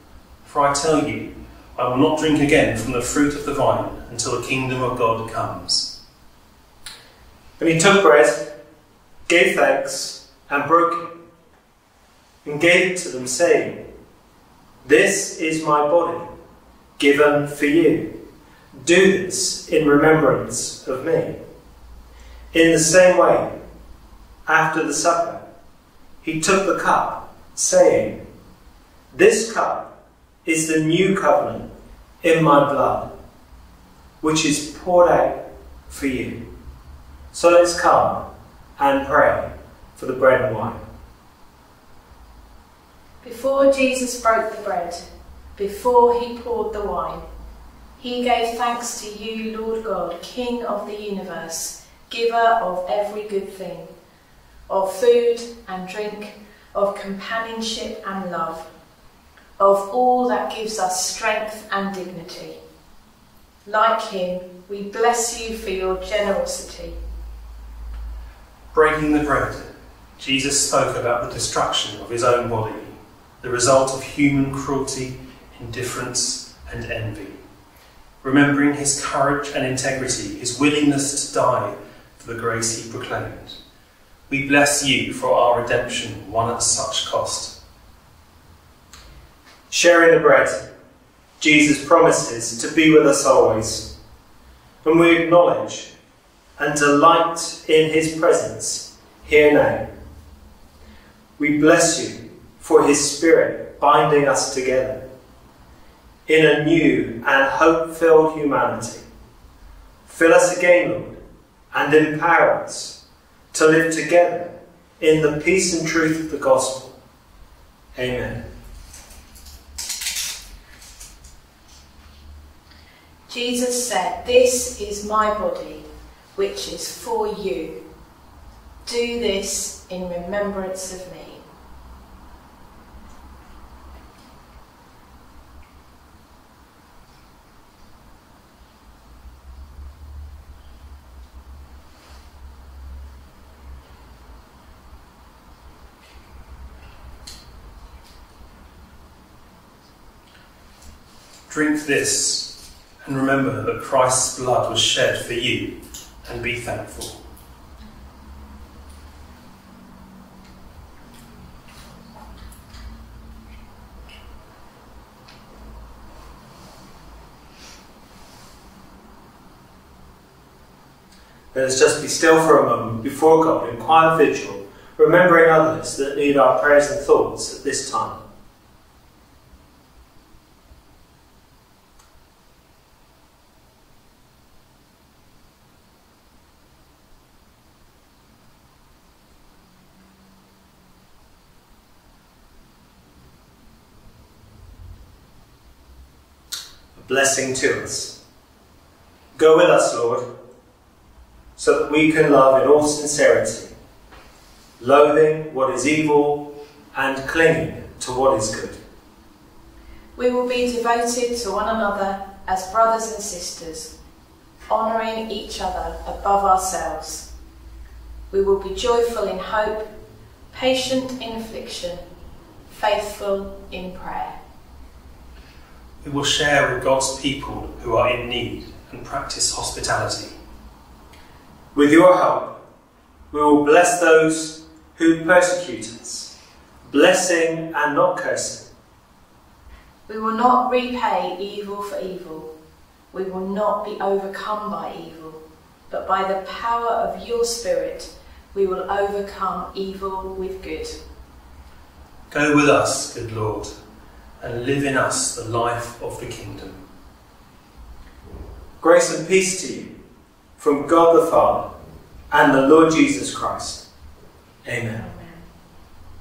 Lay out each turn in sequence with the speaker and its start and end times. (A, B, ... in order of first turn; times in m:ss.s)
0:00.4-0:05.9 A
0:07.6-0:08.5 B
0:09.3-0:11.1 B
0:12.4-0:13.8 B
0:14.8-0:16.3 B
0:17.0-0:18.1 B
0:18.7-0:21.4 B
0:22.5-0:23.5 B
0:24.4-0:25.4 B
0:26.2-0:28.2 B
0:29.1-0:29.9 B
0:30.4-0:31.7 B
0:32.2-0:33.1 B
0:34.2-0:36.4 B
0:37.3-0:38.2 B
0:38.8-0:40.8 B
0:43.2-0:45.0 C
0:45.6-0:47.2 C
0:48.0-0:53.9 C
0:54.7-0:58.7 C
0:59.6-1:02.6 C
1:03.6-1:07.0 C
1:08.7-1:17.4 A
1:18.2-1:23.6 A
1:24.3-1:27.6 A
1:29.7-1:30.6 B
1:31.4-1:33.9 B
1:34.8-1:35.9 B
1:36.6-1:39.9 B
1:41.4-1:45.0 B
1:46.3-1:49.0 B
1:50.1-1:51.2 B
1:51.7-1:53.0 B
1:53.5-1:56.9 B
1:57.9-1:58.4 B
2:03.3-2:05.8 C
2:06.4-2:07.8 C
2:08.8-2:11.4 C
2:31.5-2:37.2 A
2:51.5-2:58.2 B
3:16.9-3:18.2 B
3:19.4-3:20.2 B
3:21.6-3:23.7 B
3:24.8-3:28.8 B
3:30.2-3:33.9 C
3:34.7-3:37.3 C
3:38.3-3:39.9 C
3:40.5-3:42.0 C
3:42.7-3:44.4 C
3:46.0-3:50.4 A
3:51.7-3:52.6 B
3:53.3-3:56.3 B
3:56.8-3:58.6 B
4:00.1-4:02.5 C
4:03.1-4:11.0 C
4:12.3-4:13.7 A
4:14.4-4:16.8 A
4:18.8-4:19.9 B
4:20.6-4:21.7 B
4:22.3-4:23.8 B
4:24.6-4:25.1 B
4:25.0-4:25.4 C